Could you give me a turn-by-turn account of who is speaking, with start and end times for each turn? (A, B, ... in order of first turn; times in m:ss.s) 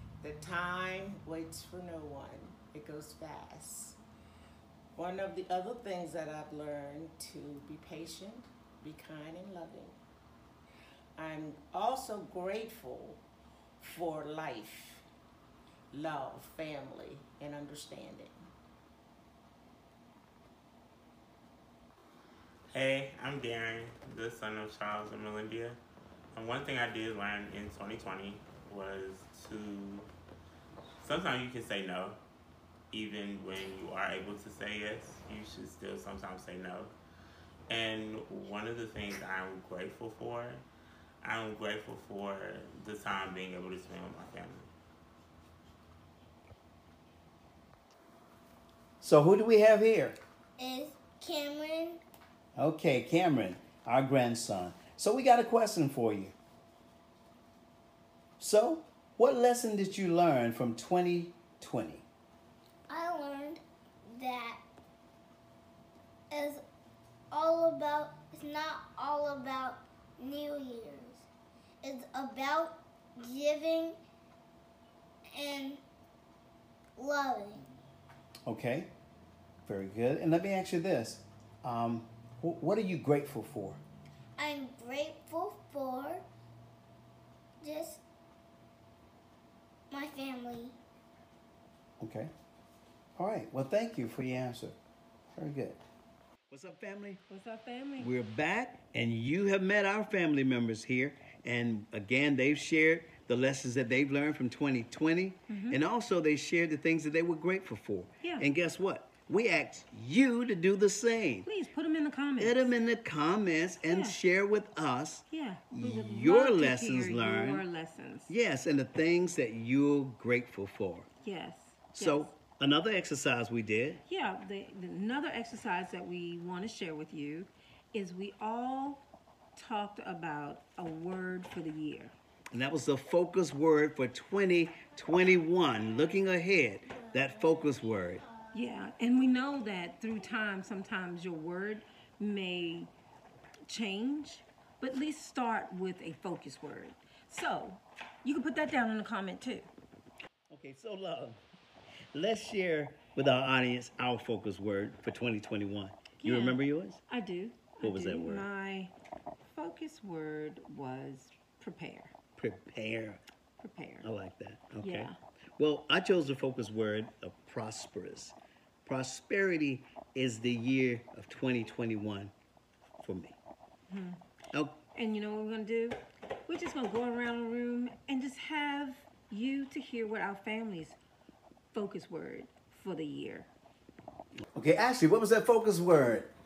0:00.2-0:04.0 A
0:04.9-0:10.0 A
0:11.2-0:13.2 A
0:13.8-0:15.0 A
0:15.9-0:18.4 A
0:22.7-0:25.8 B
0:26.3-0:30.1 B
0:31.0-0:32.2 B
0:32.9-0:36.9 B
0:37.7-0:40.6 B
0:41.2-0:44.7 B
0:49.0-0:50.2 C
0:50.6-0:52.0 D
0:52.6-0:56.3 C
0:58.4-1:02.0 C
1:02.9-1:04.6 D
1:06.3-1:06.6 D
1:07.3-1:11.2 D
1:11.8-1:14.0 D
1:15.3-1:15.8 D
1:17.0-1:17.6 D
1:18.4-1:18.9 C
1:19.6-1:23.8 C
1:24.4-1:26.2 D
1:27.6-1:28.0 D
1:29.9-1:30.7 D
1:32.0-1:32.3 C
1:33.2-1:34.8 C
1:35.3-1:35.8 C
1:36.5-1:37.2 C
1:37.3-1:38.1 E
1:38.0-1:51.5 C
1:45.5-1:45.8 E
1:51.4-1:52.7 E
1:52.4-1:57.6 C
1:53.8-1:54.2 E
1:55.3-1:58.3 E
1:58.3-2:01.1 C
2:01.2-2:02.3 E
2:01.9-2:04.0 C
2:04.1-2:09.0 E
2:09.5-2:12.1 E
2:12.5-2:18.2 C
2:18.5-2:22.9 E
2:23.7-2:29.7 E
2:30.5-2:31.4 C
2:32.1-2:37.0 C
2:36.2-2:38.9 E
2:37.8-2:38.5 C
2:39.4-2:42.1 E
2:42.4-2:43.2 C
2:43.6-2:44.1 E
2:44.0-2:52.3 C
2:44.8-2:45.1 E
2:53.0-2:53.4 C
2:53.9-2:54.2 E
2:54.5-2:54.8 C
2:54.9-3:01.0 E
3:01.7-3:03.5 E
3:04.5-3:06.3 C